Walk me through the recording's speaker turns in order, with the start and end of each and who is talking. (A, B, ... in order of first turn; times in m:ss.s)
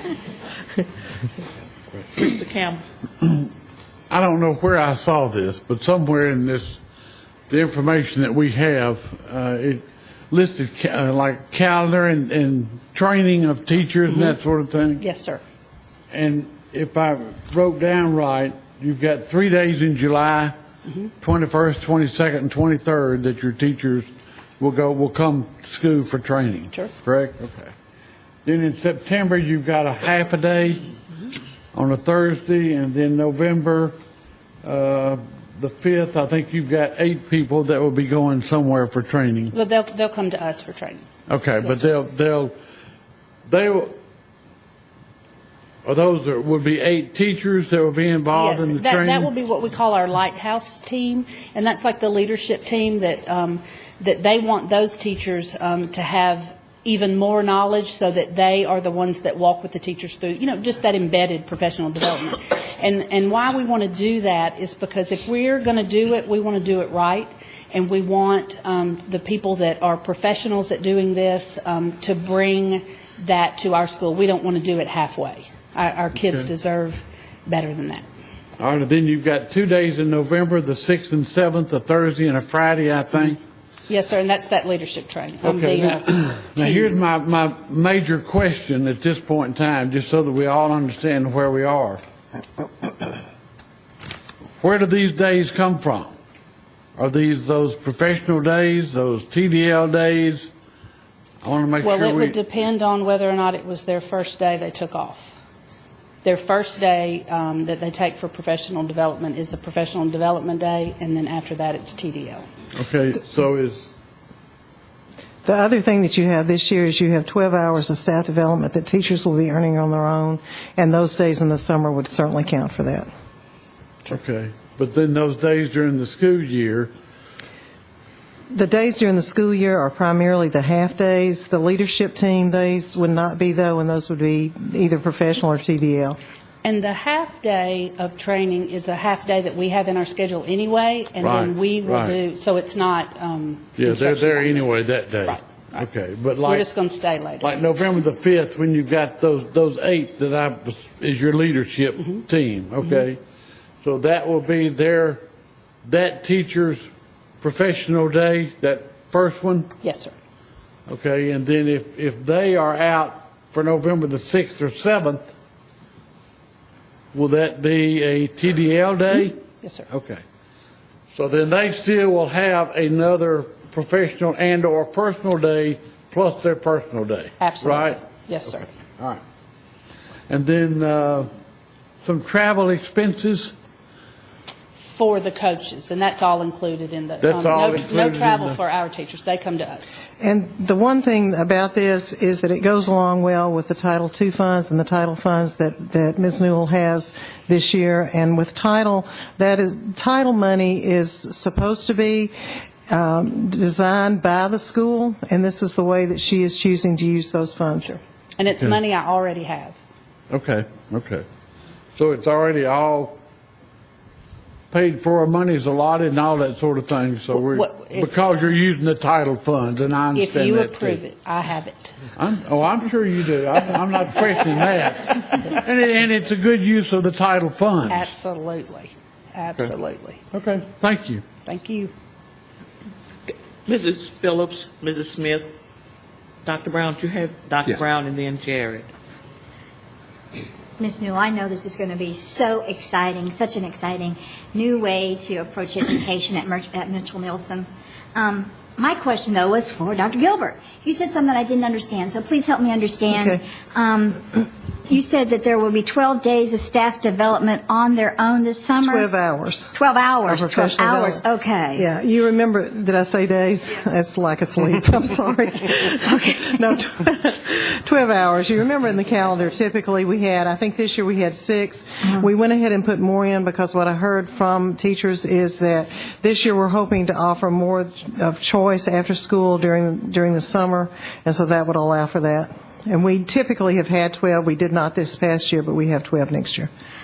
0:02.4-0:02.8 A
0:04.1-0:06.8 B
0:07.5-0:15.0 B
0:14.1-0:14.4 C
0:15.0-0:15.4 C
0:16.1-0:20.5 B
0:21.2-0:24.1 B
0:24.6-0:27.7 B
0:28.4-0:30.9 B
0:31.7-0:34.0 B
0:34.6-0:39.5 B
0:39.5-0:41.0 C
0:41.3-0:42.5 B
0:43.5-0:43.9 B
0:45.8-0:49.3 B
0:48.3-1:18.0 C
1:16.2-1:16.5 B
1:18.6-1:23.4 B
1:23.9-1:26.9 C
1:25.4-1:32.0 B
1:34.6-1:36.1 B
1:37.0-1:40.5 B
1:41.4-1:42.4 B
1:41.8-1:45.4 C
1:46.2-1:52.4 C
1:52.7-1:53.9 B
1:55.4-2:03.1 D
2:04.0-2:06.9 B
2:08.5-2:16.2 D
2:16.6-2:25.9 C
2:21.2-2:22.2 B
2:23.8-2:26.7 B
2:26.4-2:27.6 C
2:27.4-2:33.2 B
2:33.8-2:35.2 B
2:35.8-2:36.9 B
2:37.4-2:39.7 B
2:39.8-2:40.1 C
2:40.9-2:45.2 B
2:47.1-2:50.2 B
2:49.6-2:49.9 C
2:51.1-2:58.0 B
2:57.4-2:58.7 C
3:00.3-3:01.3 B
3:02.0-3:03.5 B
3:04.7-3:10.0 C
3:07.2-3:08.6 B
3:10.2-3:22.3 D
3:22.9-3:27.9 D
3:27.9-3:29.8 C
3:30.3-3:31.2 B
3:32.0-3:33.2 B
3:34.7-3:41.0 B
3:37.3-3:38.2 C
3:40.1-3:41.9 C
3:42.2-3:48.1 B
3:47.9-3:50.2 C
3:50.3-3:51.2 B
3:51.4-3:51.9 C
3:53.7-3:55.4 A
3:56.4-3:58.9 A
4:00.8-4:19.1 E
4:13.1-4:13.4 D
4:18.8-4:21.2 D
4:19.7-4:21.8 E
4:21.7-4:46.7 D
4:26.1-4:26.4 E